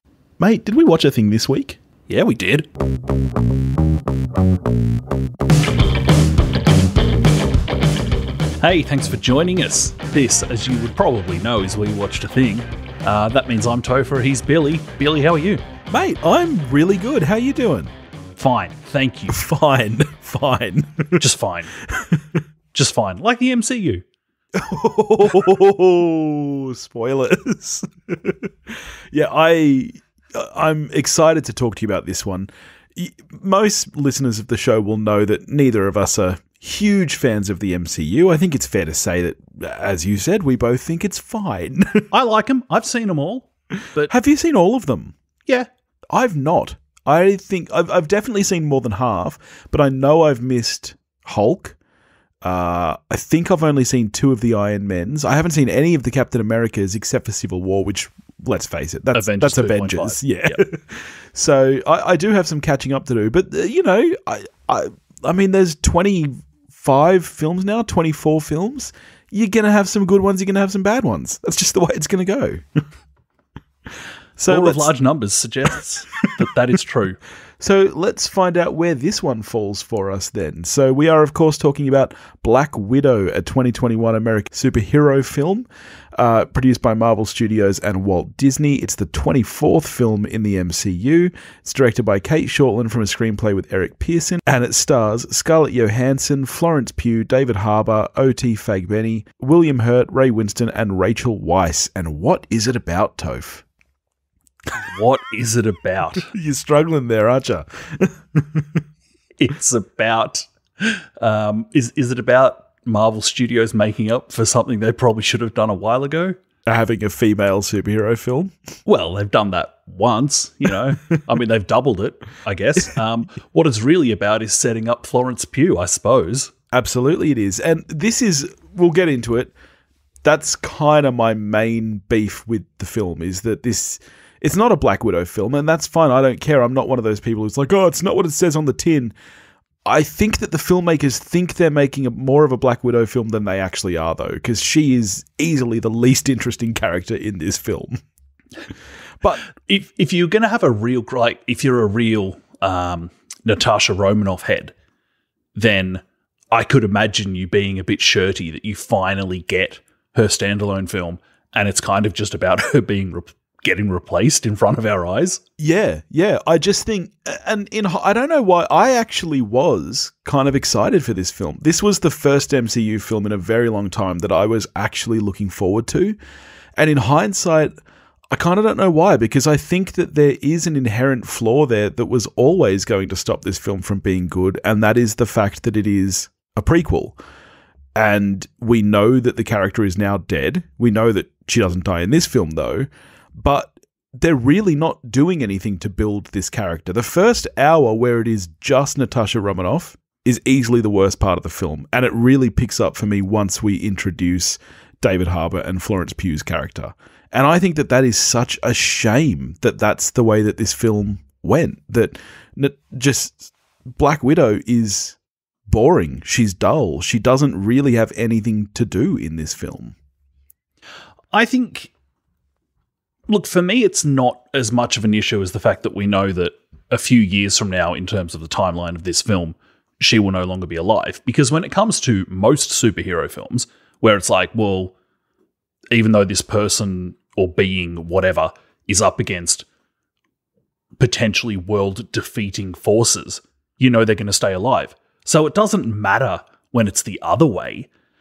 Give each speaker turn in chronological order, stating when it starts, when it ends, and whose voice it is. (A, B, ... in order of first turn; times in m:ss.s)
0:00.4-0:01.8 A
0:02.1-0:02.7 B
0:08.6-0:15.6 B
0:15.9-0:17.9 A
0:18.4-0:19.4 B
0:19.3-0:21.2 A
0:21.2-0:21.8 B
0:21.8-0:22.4 A
0:22.7-0:24.0 B
0:24.6-0:42.1 A
0:42.1-0:44.1 B
0:44.1-0:45.1 A
0:46.1-0:51.8 A
0:52.4-1:12.8 A
0:59.1-1:00.6 B
1:14.4-1:14.9 A
1:14.5-1:17.2 B
1:17.6-1:43.6 A
1:44.8-1:46.3 B
1:46.2-1:48.8 A
1:49.4-1:56.4 B
1:56.7-1:58.5 A
1:58.9-2:06.5 B
2:06.7-2:09.5 A
2:10.2-2:19.1 A
2:19.8-2:28.0 A
2:29.6-2:34.7 B
2:35.6-2:45.4 B
2:45.6-2:56.2 A
2:56.8-2:57.7 A
2:58.3-3:07.2 A
3:08.0-3:40.0 A
3:41.3-3:41.9 B
3:43.3-3:54.9 B
3:55.9-3:59.6 B
4:01.0-4:07.9 B